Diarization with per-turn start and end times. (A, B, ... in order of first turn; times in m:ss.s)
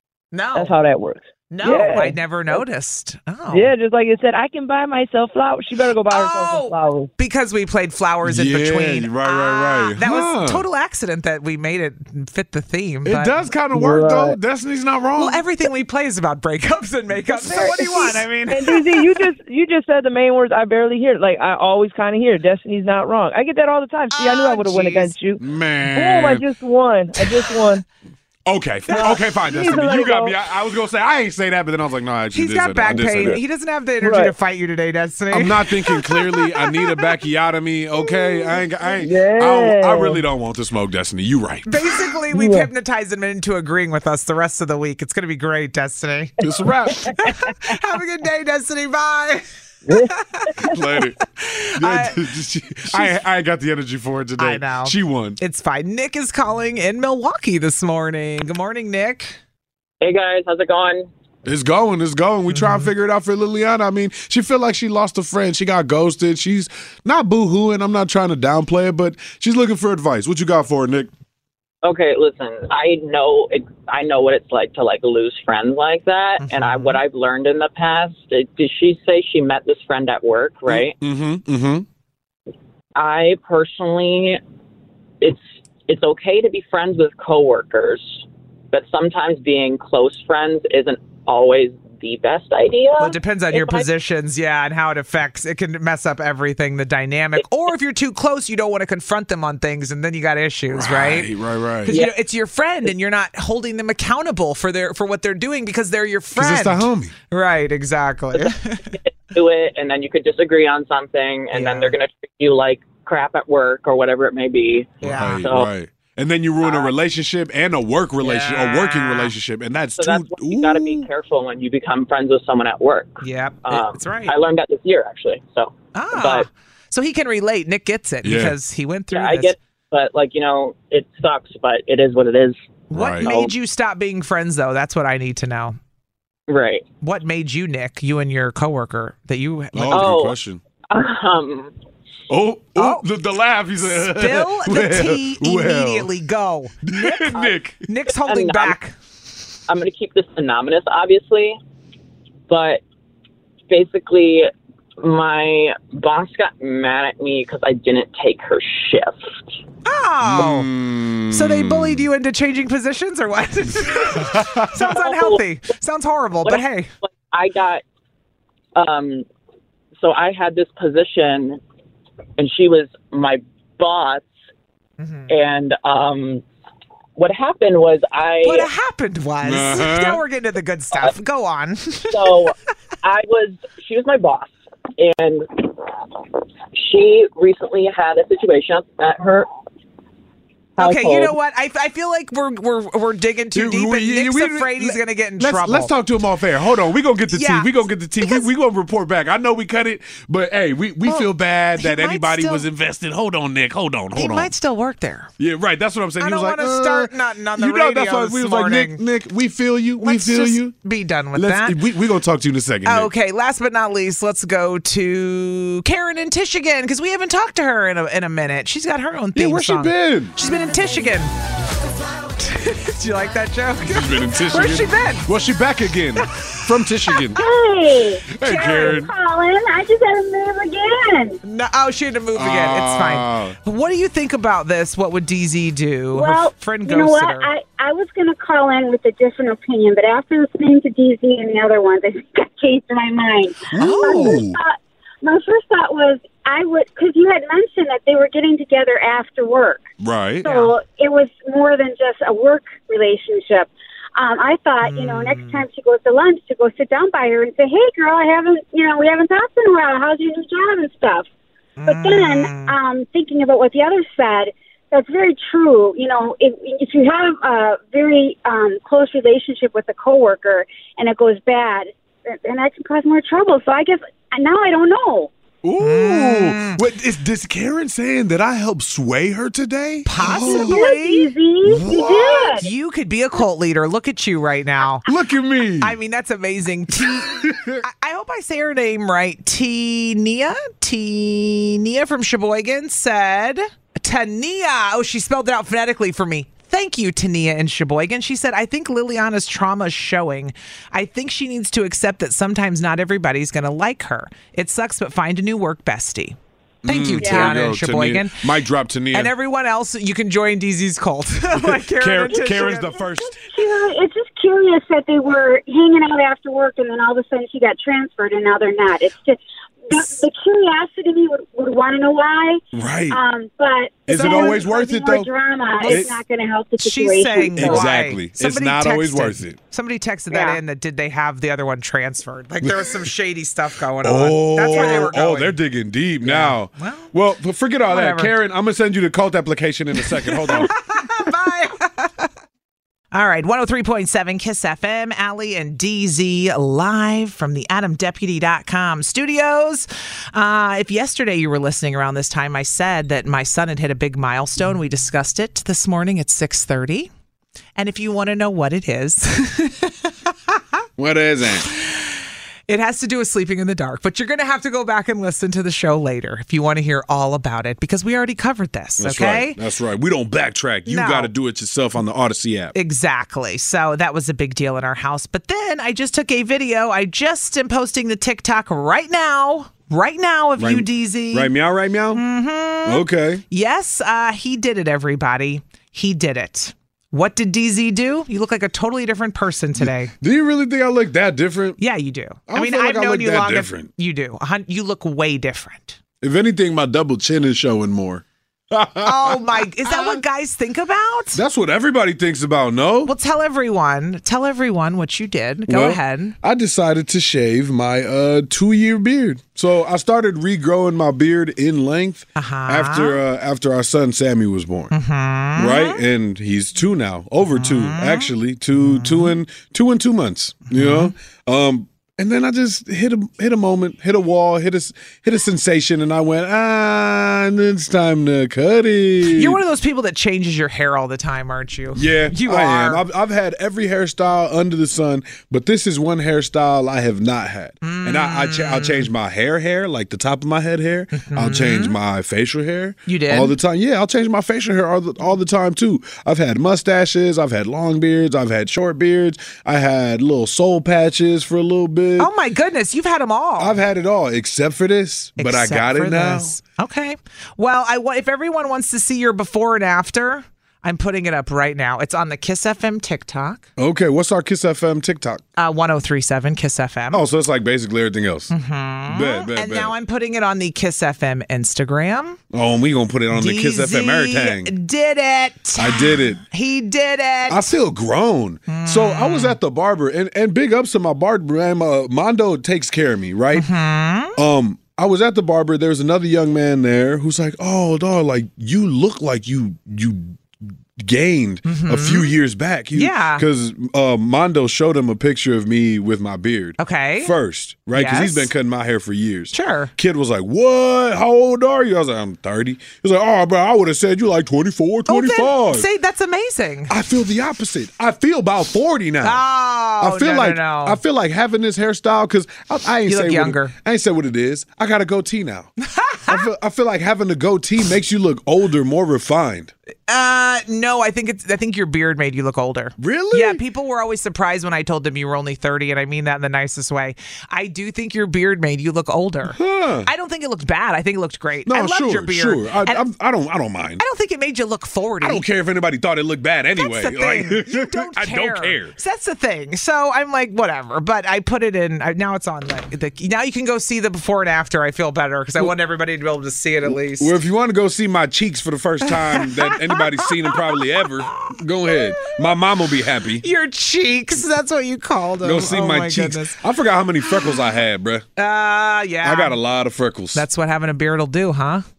0:00.3-0:00.7 A
0:00.5-0:02.6 B
0:01.5-0:03.7 A
0:03.5-0:07.1 B
0:06.1-0:13.4 A
0:08.2-0:10.6 C
0:13.0-0:15.4 C
0:13.7-0:14.4 B
0:15.2-0:19.2 A
0:17.3-0:25.4 B
0:24.1-0:25.1 A
0:25.4-0:26.4 C
0:25.9-0:27.8 B
0:28.4-0:33.4 C
0:28.9-0:29.2 A
0:28.9-0:30.3 B
0:32.3-0:37.1 A
0:34.0-0:34.3 B
0:35.3-0:41.7 C
0:39.0-0:40.2 B
0:41.7-0:46.4 A
0:42.3-0:42.7 B
0:46.4-0:47.1 C
0:47.0-0:50.6 A
0:49.8-0:50.1 B
0:50.6-0:51.2 C
0:51.3-0:52.2 A
0:51.8-0:55.4 C
0:52.9-0:53.2 A
0:54.4-0:59.4 A
1:00.0-1:01.1 D
1:01.4-1:11.1 C
1:02.5-1:02.9 A
1:11.8-1:20.9 D
1:16.4-1:17.0 A
1:20.7-1:21.8 C
1:23.0-1:24.4 D
1:25.2-1:33.8 D
1:33.0-1:41.3 A
1:40.7-1:42.0 C
1:41.8-1:42.2 D
1:41.8-1:48.9 A
1:46.3-1:47.1 C
1:48.3-1:55.7 D
1:51.5-1:52.0 A
1:55.0-1:55.5 A
1:55.0-2:01.1 C
1:56.6-1:56.9 D
1:58.2-1:59.3 A
2:00.0-2:06.5 D
2:03.2-2:04.4 A
2:05.9-2:09.5 A
2:08.2-2:08.6 C
2:09.1-2:12.6 D
2:12.9-2:15.8 A
2:12.9-2:13.3 C
2:13.2-2:13.5 D
2:16.5-2:16.8 D
2:17.0-2:20.2 A
2:19.7-2:20.6 C
2:19.9-2:20.4 D
2:20.9-2:21.7 D
2:22.3-2:26.1 C
2:22.8-2:23.0 A
2:23.8-2:28.9 A
2:26.8-2:27.9 C
2:28.2-2:28.8 D
2:29.7-2:31.6 D
2:32.5-2:32.8 D
2:33.7-2:39.6 D
2:39.8-2:40.7 A
2:40.2-2:42.1 C
2:41.3-2:46.9 A
2:44.2-2:44.7 C
2:44.7-2:45.4 D
2:47.2-2:47.8 D
2:48.8-2:49.2 D
2:50.0-2:51.6 D
2:52.4-2:54.3 D
2:55.0-2:55.3 A
2:55.3-2:56.4 D
2:57.2-2:58.7 D
2:58.4-3:02.4 A
2:59.4-3:00.2 C
3:02.1-3:05.7 D
3:06.7-3:09.5 D
3:10.8-3:11.3 D
3:10.8-3:15.9 A
3:13.5-3:24.5 C
3:17.3-3:18.5 A
3:21.0-3:22.6 A
3:24.1-3:25.3 A
3:25.4-3:30.7 C
3:26.2-3:29.0 A
3:30.0-3:31.8 A
3:31.3-3:33.1 C
3:32.8-3:41.3 A
3:39.3-3:40.4 C
3:42.3-3:45.3 A
3:43.8-3:47.4 C
3:46.2-3:46.6 A
3:47.1-3:47.4 A
3:47.3-3:51.4 E
3:48.3-3:49.1 C
3:48.4-3:48.9 A
3:51.4-3:57.5 A
3:52.3-3:53.6 C
3:56.1-4:09.9 E
4:03.7-4:04.6 C
4:03.8-4:04.4 A
4:10.0-4:10.5 C
4:10.4-4:21.2 E
4:10.4-4:10.7 A
4:14.8-4:15.6 A
4:21.8-4:22.7 A
4:21.8-4:35.3 E
4:35.6-4:40.9 C
4:35.8-4:36.8 A
4:40.0-4:41.3 A
4:40.3-4:42.7 E
4:41.6-4:42.6 C
4:42.6-4:45.0 A
4:45.0-4:46.0 C
4:45.8-5:08.4 A
4:47.0-4:47.8 C
5:06.8-5:09.3 C
5:07.2-5:07.5 E
5:09.1-5:12.9 A
5:11.5-5:13.4 C
5:12.2-5:27.8 E
5:22.7-5:23.2 C
5:24.1-5:25.3 C
5:24.1-5:24.6 A
5:25.8-5:26.1 A
5:25.8-5:26.2 C
5:26.8-5:35.6 A
5:27.6-5:29.6 C
5:30.3-5:30.6 E
5:32.6-5:33.0 C
5:34.0-5:40.7 C
5:36.2-5:37.1 A
5:37.9-5:38.3 A
5:40.0-5:42.3 A
5:43.1-5:57.1 A
5:57.8-6:00.6 A
6:01.0-6:01.7 C
6:01.8-6:02.1 A
6:02.7-6:09.6 A
6:09.0-6:12.7 C
6:10.9-6:11.3 A
6:12.7-6:21.5 A
6:20.6-6:22.2 C
6:22.1-6:30.1 A
6:22.8-6:23.4 C
6:29.8-6:31.8 C
6:31.8-6:36.0 A
6:32.5-6:33.9 C
6:36.2-6:40.2 C
6:39.0-6:41.4 A
6:41.3-6:43.1 C
6:43.0-6:46.4 A
6:45.7-6:54.9 C
6:52.4-6:53.2 A
6:54.9-6:56.0 A
6:55.6-7:09.6 C
6:57.4-6:59.4 A
7:00.7-7:01.1 A
7:09.3-7:13.0 A
7:11.9-7:32.3 C
7:17.8-7:19.1 A
7:21.1-7:22.0 A
7:23.1-7:23.6 A
7:32.2-7:33.8 A
7:33.6-7:36.5 C
7:35.4-7:43.7 A
7:43.8-7:45.4 C
7:45.6-7:47.2 A
7:47.1-7:48.5 C
7:48.5-7:52.4 A
7:49.1-7:49.9 C
7:52.5-7:54.7 C
7:53.3-7:57.7 A
7:55.8-7:56.4 C
7:57.5-8:03.7 C
7:58.7-7:59.6 A
8:03.5-8:04.4 A
8:04.4-8:10.4 C
8:11.0-8:25.9 C
8:11.6-8:12.3 A
8:12.9-8:13.4 A
8:16.8-8:17.3 A
8:17.9-8:18.5 A
8:19.5-8:19.9 A
8:25.1-8:26.9 A
8:26.9-8:29.4 C
8:29.2-8:31.0 A
8:30.0-8:35.7 C
8:33.1-8:33.7 A
8:35.8-8:36.5 A
8:36.3-8:39.7 C
8:40.1-8:53.0 A
8:43.0-8:43.6 C
8:49.4-8:50.1 C
8:51.6-8:54.0 C
8:54.0-8:55.4 A
8:55.2-8:59.0 C
8:56.8-9:07.3 A
9:06.9-9:13.4 C
9:09.0-9:12.4 A
9:13.4-9:16.6 A
9:15.4-9:18.2 C
9:18.4-9:19.6 A
9:19.2-9:20.4 C
9:20.3-9:21.8 A